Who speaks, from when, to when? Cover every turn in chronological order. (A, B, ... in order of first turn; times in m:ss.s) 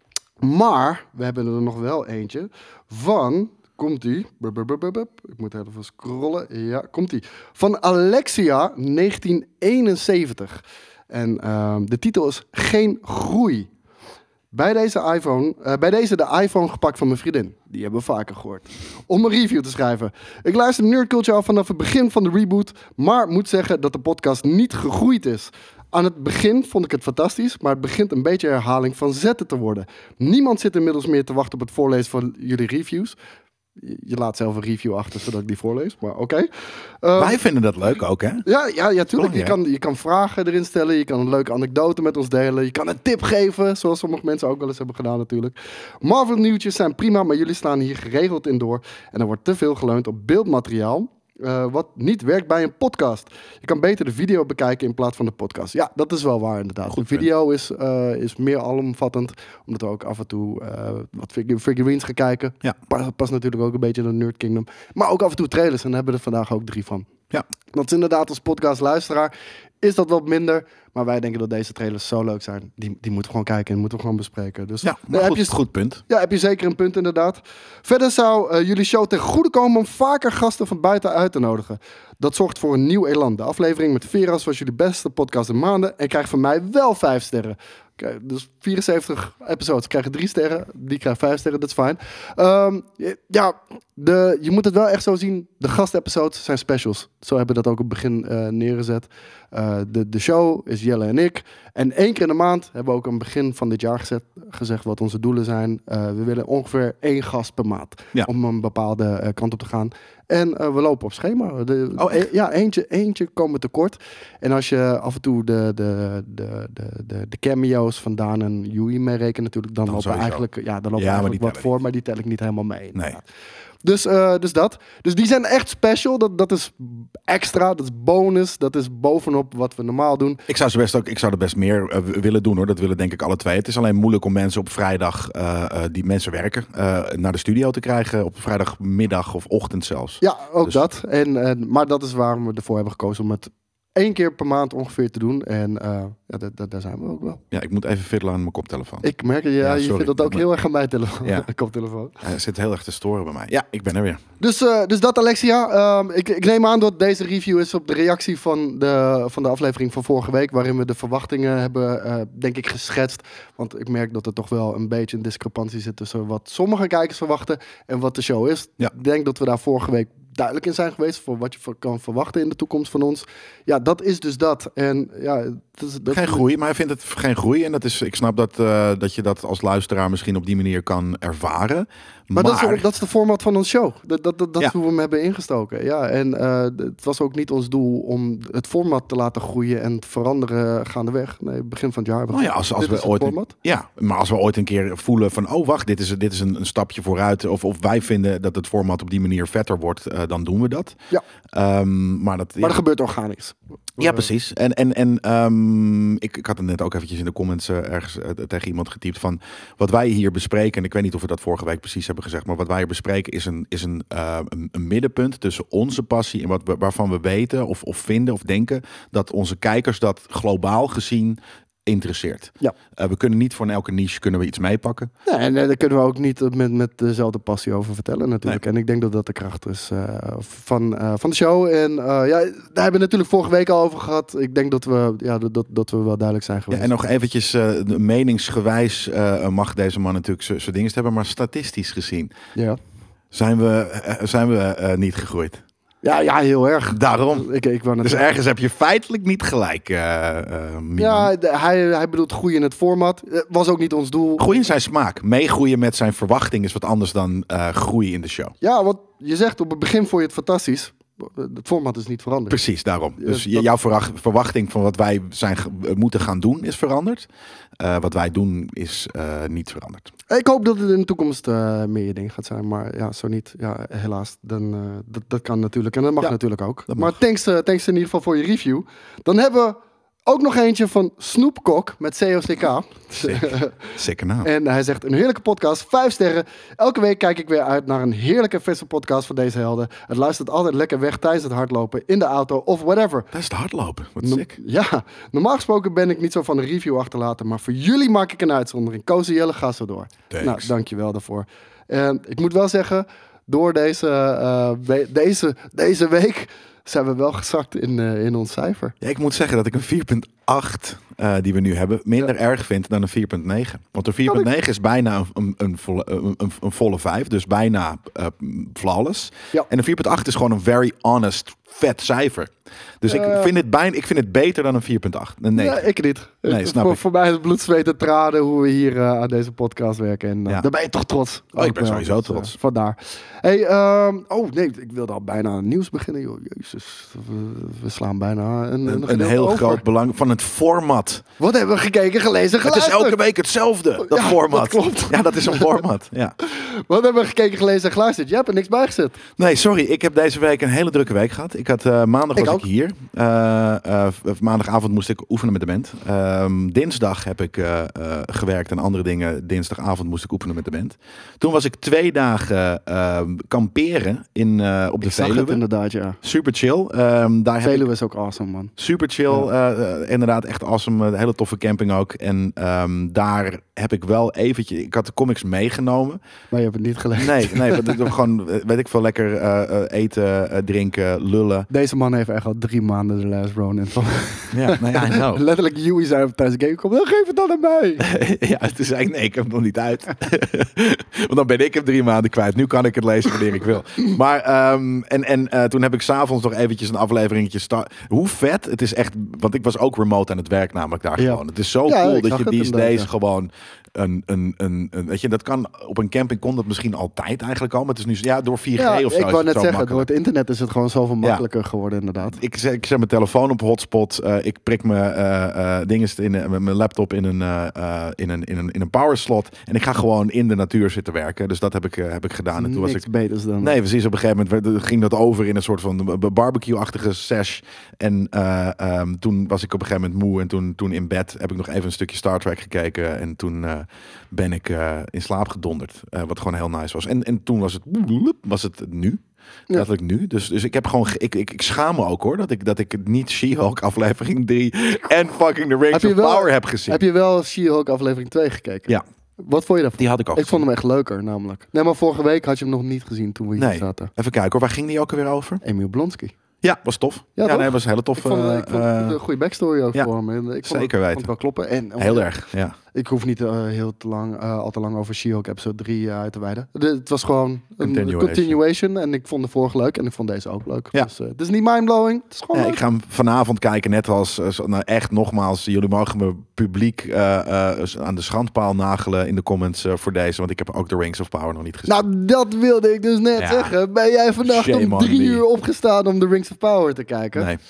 0:00.4-0:13.7 A
0:14.5-0:33.2 A
0:33.8-0:36.5 A
0:37.0-0:37.4 A
0:37.2-0:38.4 B
0:38.4-1:07.1 A
0:39.2-0:39.6 B
0:56.9-0:57.3 B
1:07.7-2:03.2 A
1:14.8-1:16.0 B
1:52.0-1:52.2 B
1:59.9-2:00.4 B
2:01.0-2:01.7 B
2:03.8-2:10.4 A
2:10.5-2:20.8 B
2:20.2-2:27.4 A
2:27.5-2:29.1 B
2:29.0-2:32.1 A
2:29.6-2:30.4 B
2:32.2-2:34.2 B
2:34.4-2:56.4 A
2:56.1-3:02.8 B
3:02.3-3:13.5 A
3:12.3-3:21.0 B
3:21.5-3:22.8 B
3:22.6-3:24.2 A
3:24.0-3:45.1 B
3:45.2-3:56.9 A
3:56.7-4:02.3 B
4:03.3-4:05.6 B
4:06.0-4:08.3 A
4:06.9-4:07.5 B
4:08.0-4:11.3 B
4:11.0-4:14.6 A
4:14.4-4:18.5 B
4:18.6-4:22.6 A
4:22.5-4:27.3 B
4:23.2-4:23.7 A
4:27.8-4:30.1 B
4:30.3-4:53.3 A
4:36.9-4:37.2 B
4:43.2-4:44.5 B
4:53.3-4:54.5 B
4:54.2-5:08.9 A
5:00.3-5:00.7 B
5:09.0-5:25.8 B
5:23.1-5:23.5 A
5:25.6-5:39.8 A
5:26.4-5:27.0 B
5:31.6-5:32.5 B
5:38.8-5:41.2 B
5:41.4-5:43.2 A
5:42.6-5:46.3 B
5:44.0-5:45.8 A
5:46.4-5:49.2 A
5:49.4-6:05.6 B
5:52.4-5:52.6 A
6:05.0-6:06.2 A
6:06.2-6:07.9 B
6:07.6-6:08.7 A
6:08.8-6:16.2 B
6:16.5-6:18.1 A
6:17.2-6:21.7 B
6:21.7-6:28.0 A
6:24.5-6:25.4 B
6:28.0-6:50.0 B
6:41.2-6:43.1 A
6:48.8-6:52.4 A
6:52.3-7:03.0 B
7:02.6-7:03.7 A
7:03.6-7:19.2 B
7:19.7-7:27.0 B
7:25.9-7:34.1 A
7:30.0-7:30.6 B
7:33.6-7:35.6 B
7:35.6-7:36.4 A
7:36.6-7:39.2 B
7:37.4-7:42.3 A
7:40.6-7:41.3 B
7:42.0-7:42.7 B
7:42.9-7:52.8 A
7:47.8-7:48.6 B
7:52.5-8:02.0 B
8:01.8-8:07.5 A
8:03.4-8:03.7 B
8:04.4-8:05.4 B